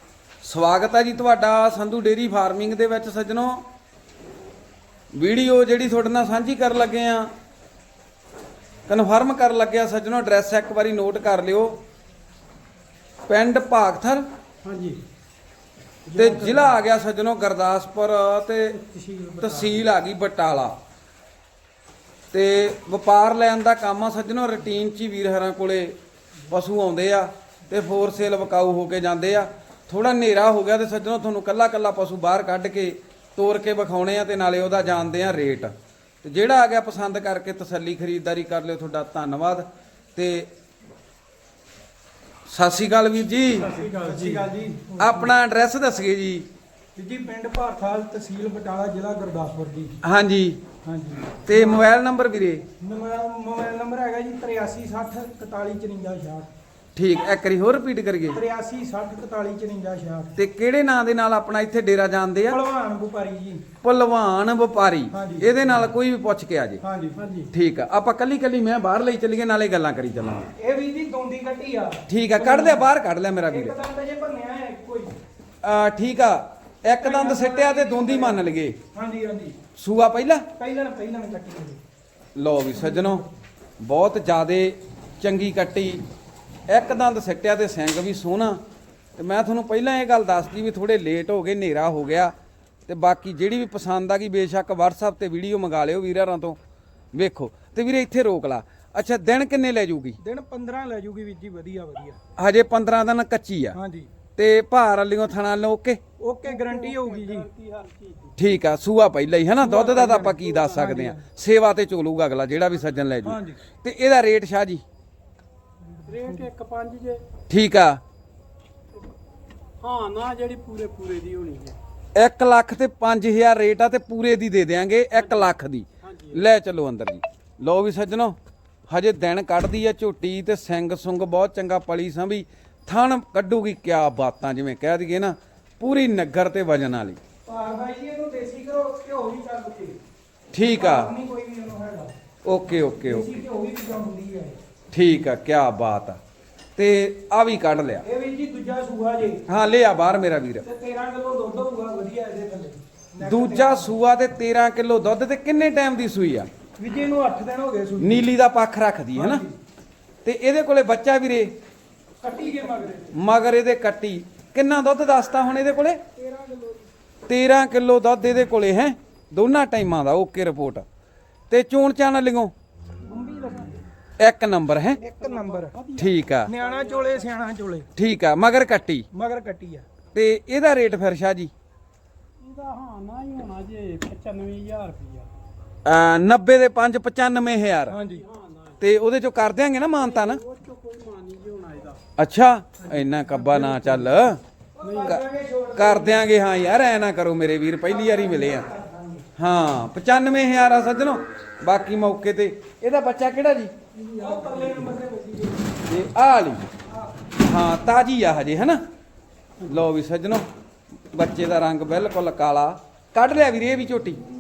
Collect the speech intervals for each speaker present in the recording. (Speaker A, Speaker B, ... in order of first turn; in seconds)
Speaker A: 0.4-3.6, 5.1-7.3, 8.9-11.8, 13.3-14.3, 16.1-18.8, 19.4-20.8, 22.3-26.0, 26.5-40.5, 42.5-43.7, 45.0-46.5, 50.0-50.6, 51.5-52.6, 57.0-58.4, 60.4-62.6, 63.8-66.8, 67.5-70.5, 72.1-73.7, 75.6-78.8, 79.8-80.5, 82.3-83.2, 83.8-86.0, 86.7-88.6, 89.2-92.3, 92.9-96.6, 97.1-100.2, 102.4-103.8, 104.4-106.0, 108.4-114.8, 117.5-118.0, 122.2-128.4, 128.9-137.2, 140.5-141.1, 142.4-143.3, 144.9-146.2, 146.8-148.1, 149.5-150.7, 153.2-156.5, 158.0-159.4, 160.2-161.6, 163.1-166.0, 167.3-170.9, 171.5-172.5, 174.2-175.0, 176.0-176.5, 178.0-179.1, 180.1-181.5, 185.8-188.0, 188.8-190.4, 192.2-194.4, 195.8-198.7, 199.4-203.7, 205.9-206.7, 207.4-208.8, 209.7-210.5, 211.1-214.2
Speaker B: 14.6-15.0, 16.1-16.8, 18.7-19.8, 43.6-44.6, 67.2-67.5, 106.4-108.4, 116.1-117.2, 119.8-121.8, 125.2-126.4, 175.0-177.3, 182.4-185.3, 188.1-188.8, 190.0-192.0, 193.4-194.1, 194.8-195.2, 203.9-205.0
Speaker C: 43.7-45.2, 47.0-50.0, 50.8-51.9, 52.8-56.5, 58.3-60.4, 62.5-63.7, 65.1-65.6, 66.8-67.2, 70.6-72.9, 73.5-75.1, 76.9-79.6, 80.6-81.8, 82.9-83.2, 100.2-102.2, 103.7-104.1, 106.2-107.5, 109.6-111.2, 113.2-113.6, 116.2-116.4, 137.4-140.0, 140.7-142.1, 143.1-144.6, 148.0-149.4, 150.7-153.9, 156.8-158.3, 159.2-159.6, 162.2-163.1, 166.2-166.9, 173.1-173.8, 175.0-175.8, 176.5-177.9, 179.1-179.8, 187.9-188.2, 194.8-196.2, 197.9-199.3, 204.1-205.6, 206.9-207.2